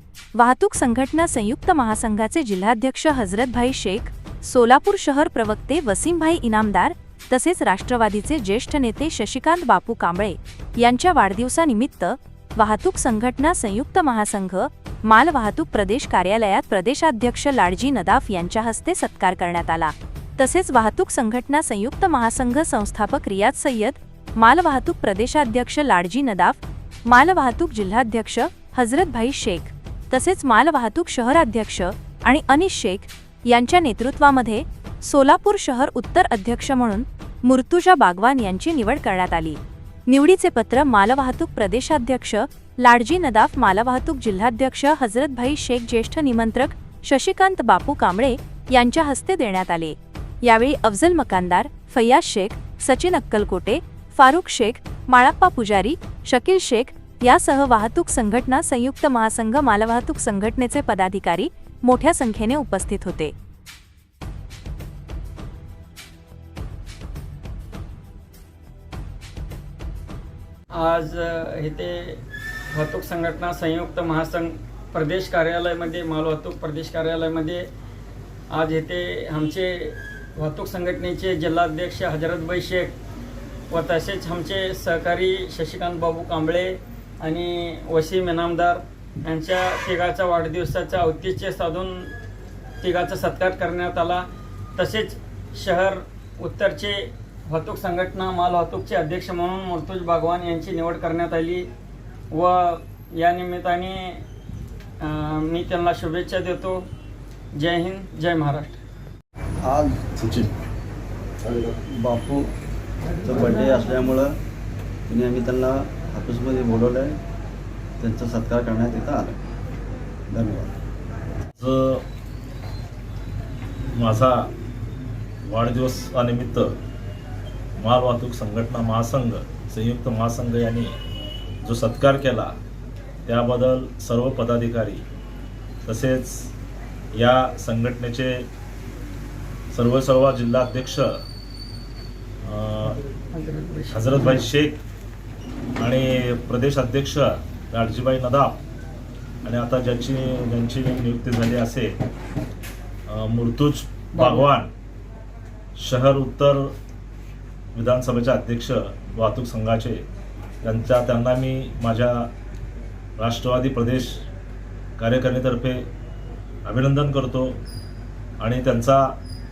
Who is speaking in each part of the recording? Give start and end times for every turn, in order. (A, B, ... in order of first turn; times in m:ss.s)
0:00.4-1:03.3 A
1:10.7-1:12.2 B
1:12.7-1:17.7 B
1:18.5-1:23.0 B
1:23.7-1:32.1 B
1:32.8-1:41.7 B
1:42.3-1:44.2 B
1:45.0-1:46.9 B
1:47.6-1:48.8 B
1:49.6-1:50.1 C
1:51.5-1:52.5 C
1:53.2-1:54.4 C
1:55.1-1:57.2 C
1:58.0-1:59.4 C
2:00.3-2:00.7 C
2:01.6-2:02.0 D
2:04.0-2:04.5 D
2:05.4-2:06.8 D
2:07.8-2:11.0 D
2:11.6-2:12.5 D
2:13.3-2:15.0 D
2:15.8-2:16.5 D
2:17.2-2:18.5 D
2:19.7-2:21.2 D
2:22.4-2:23.0 D
2:23.3-2:24.4 B
2:23.9-2:24.8 D
2:25.8-2:28.6 D
2:29.4-2:32.0 D
2:33.1-2:34.7 D
2:34.1-2:34.5 B
2:35.8-2:36.7 D
2:37.8-2:40.0 D
2:40.6-2:42.3 D
2:43.2-2:44.3 D
2:45.0-2:45.9 D
2:46.7-2:47.6 D
2:48.4-2:49.2 D